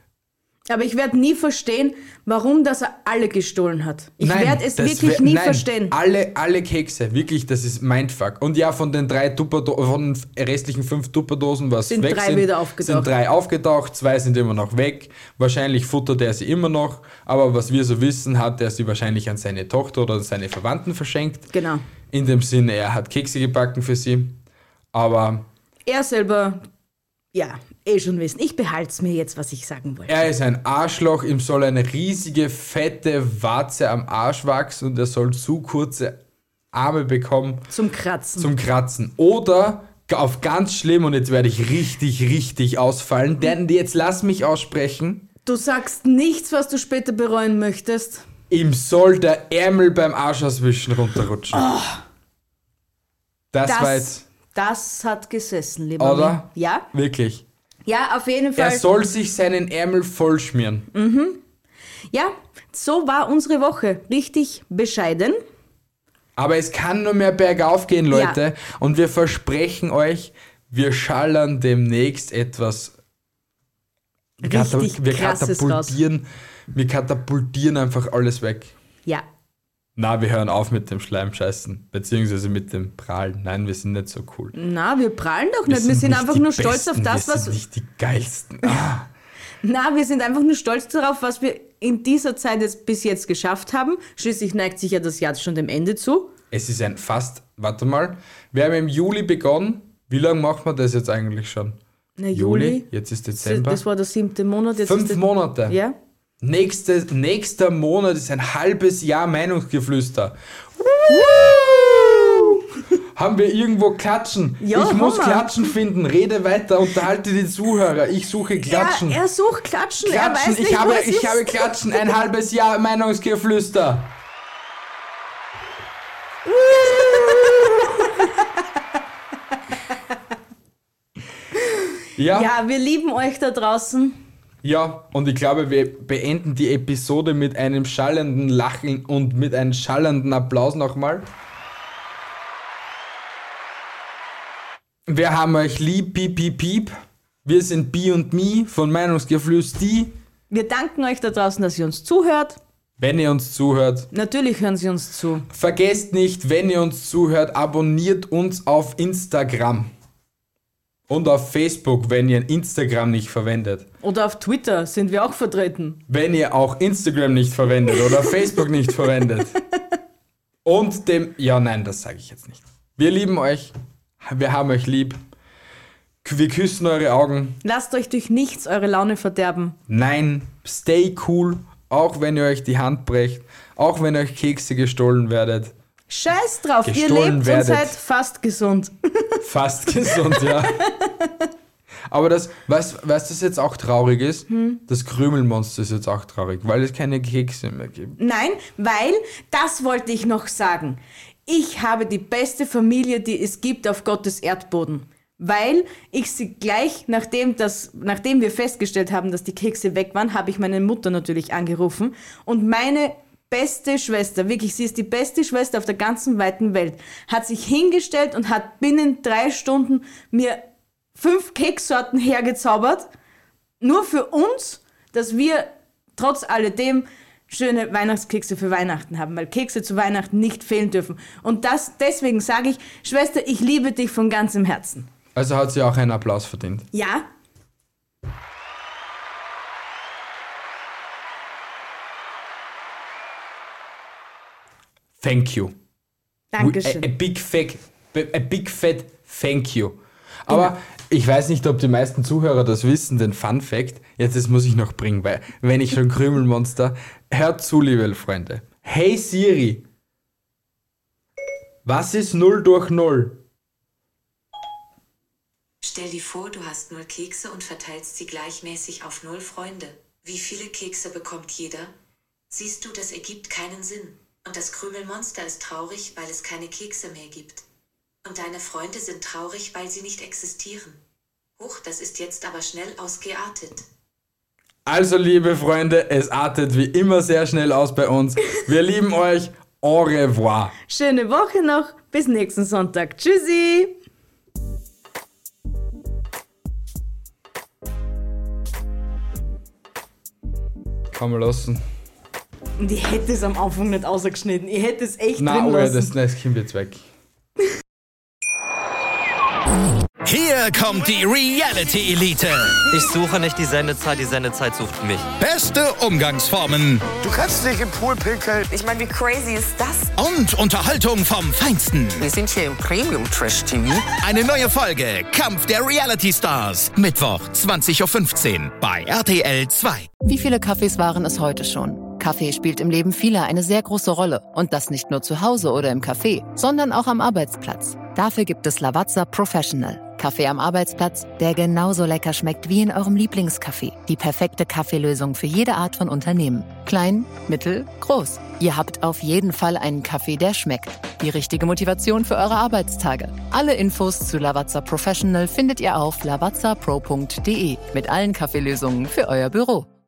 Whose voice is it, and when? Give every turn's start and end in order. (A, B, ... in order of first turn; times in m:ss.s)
0:00.7-0:05.9 A
0:04.2-0:21.5 B
0:11.9-0:13.1 A
0:21.5-0:21.8 A
0:22.1-0:24.4 B
0:24.9-0:25.5 B
0:25.8-0:26.7 A
0:27.3-0:30.3 A
0:30.1-0:36.2 B
0:36.7-0:37.7 B
0:37.7-0:38.5 A
0:38.4-0:45.2 B
0:45.4-0:48.2 A
0:48.5-0:51.7 B
0:51.5-0:52.0 A
0:53.5-0:54.2 B
0:53.6-0:56.8 A
0:56.0-0:57.4 B
0:57.8-0:58.8 A
0:58.6-1:00.9 B
1:00.9-1:01.4 A
1:02.1-1:05.4 A
1:06.4-1:13.0 B
1:08.1-1:08.4 A
1:14.4-1:18.7 B
1:14.4-1:16.0 A
1:20.0-1:24.5 B
1:24.5-1:27.6 A
1:25.7-1:29.1 B
1:29.6-1:36.3 A
1:36.5-1:41.8 B
1:42.2-1:42.8 A
1:42.3-1:43.8 B
1:43.4-1:45.9 A
1:44.8-1:45.8 B
1:46.4-1:52.6 B
1:51.1-1:52.4 A
1:53.1-1:59.2 B
1:54.6-1:55.7 A
1:58.7-2:01.7 A
2:00.0-2:04.1 B
2:06.5-2:07.8 A
2:06.9-2:07.7 B
2:12.2-2:12.5 B
2:12.3-2:14.2 A
2:14.6-2:21.3 B
2:25.1-2:30.1 B
2:30.5-2:32.6 A
2:33.0-2:34.1 B
2:34.1-2:35.5 A
2:35.5-2:39.9 B
2:41.1-2:43.9 B
2:44.0-2:46.0 A
2:46.1-2:49.6 B
2:50.6-2:55.2 B
2:56.2-2:57.6 B
2:57.6-2:59.8 A
2:59.9-3:05.7 B
3:06.1-3:09.4 A
3:06.8-3:07.9 B
3:09.4-3:10.8 B
3:10.8-3:11.3 A
3:12.1-3:18.2 B
3:14.5-3:14.8 A
3:18.2-3:40.6 A
3:41.2-3:43.1 A
3:43.8-3:55.1 A
3:55.3-3:56.9 B
3:56.9-3:57.3 A
4:05.2-4:05.7 B
4:06.5-4:07.1 A
4:06.6-4:19.8 B
4:21.8-4:23.4 B
4:25.8-4:31.9 C
4:32.5-4:37.6 C
4:38.2-4:41.0 C
4:41.6-4:43.9 C
4:44.8-4:50.7 B
4:50.9-4:53.9 A
5:01.1-5:01.8 B
5:02.8-5:06.1 A
5:05.4-5:07.0 B
5:10.2-5:12.8 D
5:12.8-5:15.3 E
5:15.4-5:17.1 D
5:17.2-5:20.1 F
5:20.1-5:22.2 D
5:22.2-5:24.1 F
5:24.2-5:30.1 D
5:30.2-5:59.9 G